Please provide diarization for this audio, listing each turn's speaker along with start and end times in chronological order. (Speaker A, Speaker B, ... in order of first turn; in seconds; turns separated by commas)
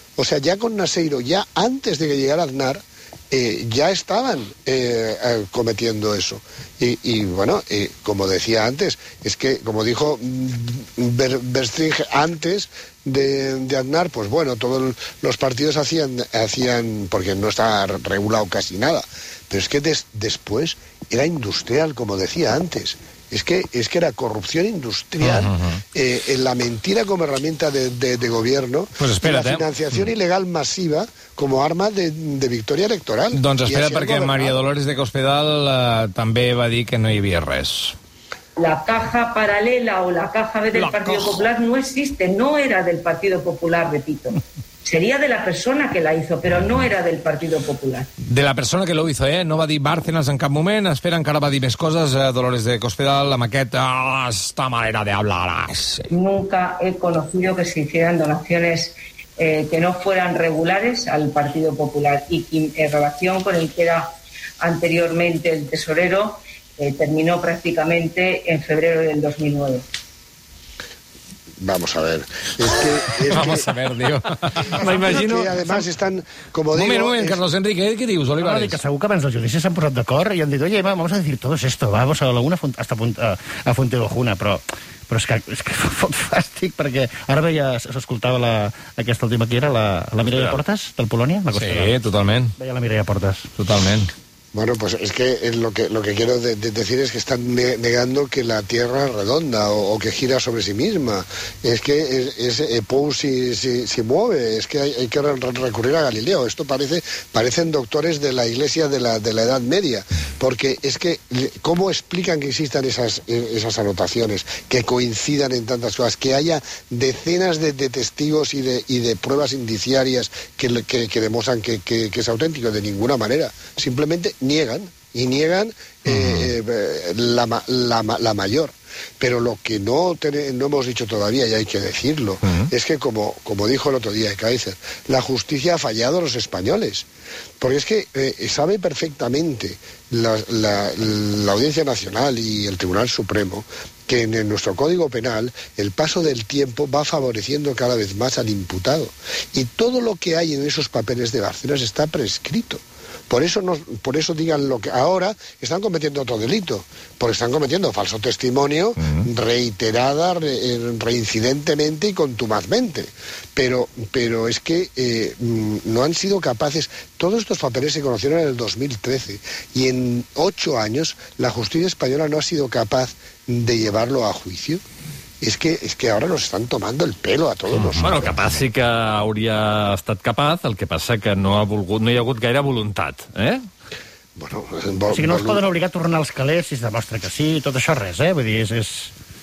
Speaker A: 0.2-34.6, Speaker B: 29.0-30.0, Speaker B: 33.3-37.9, Speaker C: 38.6-48.1, Speaker B: 40.8-41.4, Speaker B: 48.2-56.1, Speaker C: 56.1-64.1, Speaker C: 64.6-69.8, Speaker A: 71.6-73.7, Speaker B: 73.3-75.8, Speaker A: 74.8-77.4, Speaker B: 76.7-78.8, Speaker D: 78.4-92.0, Speaker B: 90.3-90.6, Speaker B: 91.5-92.5, Speaker D: 92.6-93.5, Speaker B: 93.6-94.1, Speaker A: 94.5-137.1, Speaker E: 126.1-126.5, Speaker A: 137.6-174.8, Speaker A: 175.4-178.4, Speaker E: 177.7-183.6, Speaker A: 184.4-185.7, Speaker D: 185.1-189.1